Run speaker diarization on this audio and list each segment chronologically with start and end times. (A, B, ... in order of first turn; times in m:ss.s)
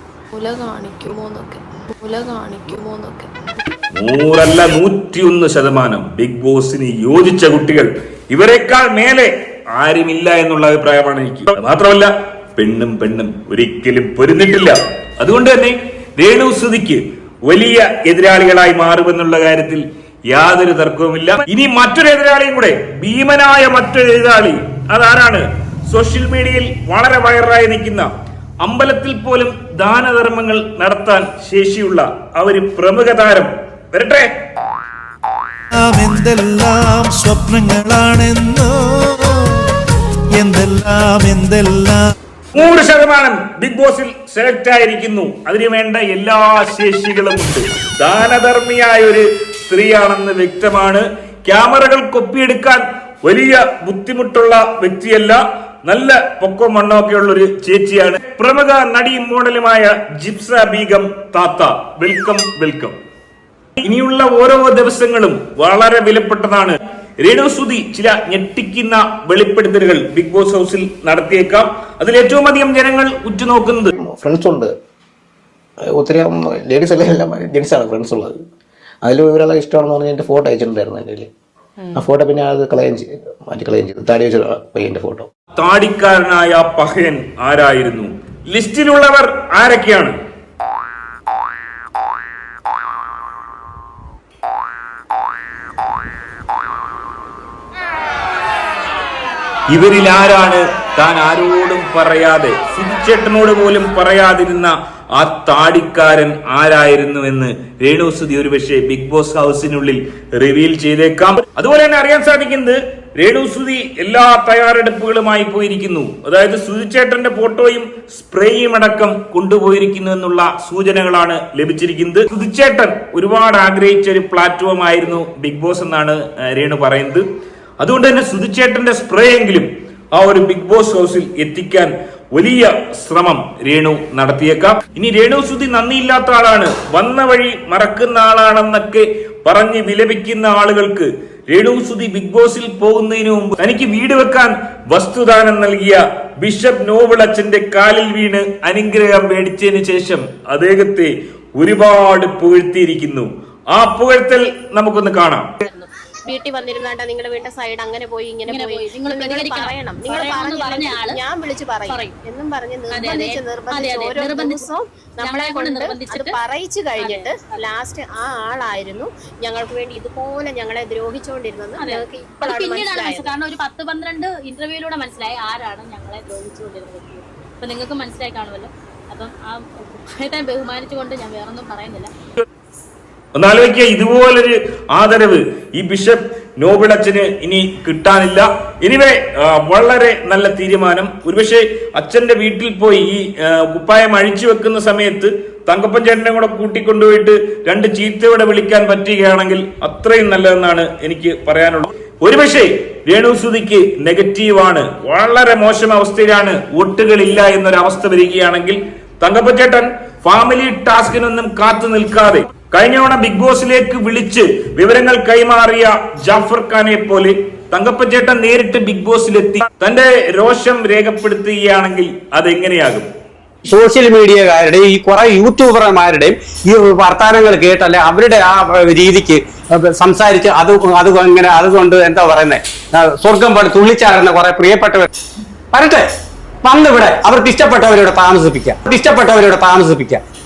0:00.3-0:03.3 A
0:03.9-0:28.1 B
0:28.6-0:34.3 B
0:35.7-0:39.7 C
0:40.3-0:42.0 C
0:42.5-1:02.9 B
1:03.8-1:13.9 B
1:13.9-1:14.7 D
1:15.8-1:18.4 D
1:19.0-1:21.3 D
1:21.9-1:25.3 D
1:25.6-1:30.1 B
1:39.7-2:07.2 B
2:07.8-2:35.5 B
2:35.6-2:35.9 E
2:36.2-2:53.3 F
2:38.5-2:41.2 E
2:42.9-2:44.7 E
2:45.2-2:46.4 E
2:47.0-2:47.6 E
2:51.8-3:02.1 E
3:03.3-3:43.1 B
3:43.7-3:55.1 G
3:55.7-3:56.0 G
3:56.6-4:00.2 G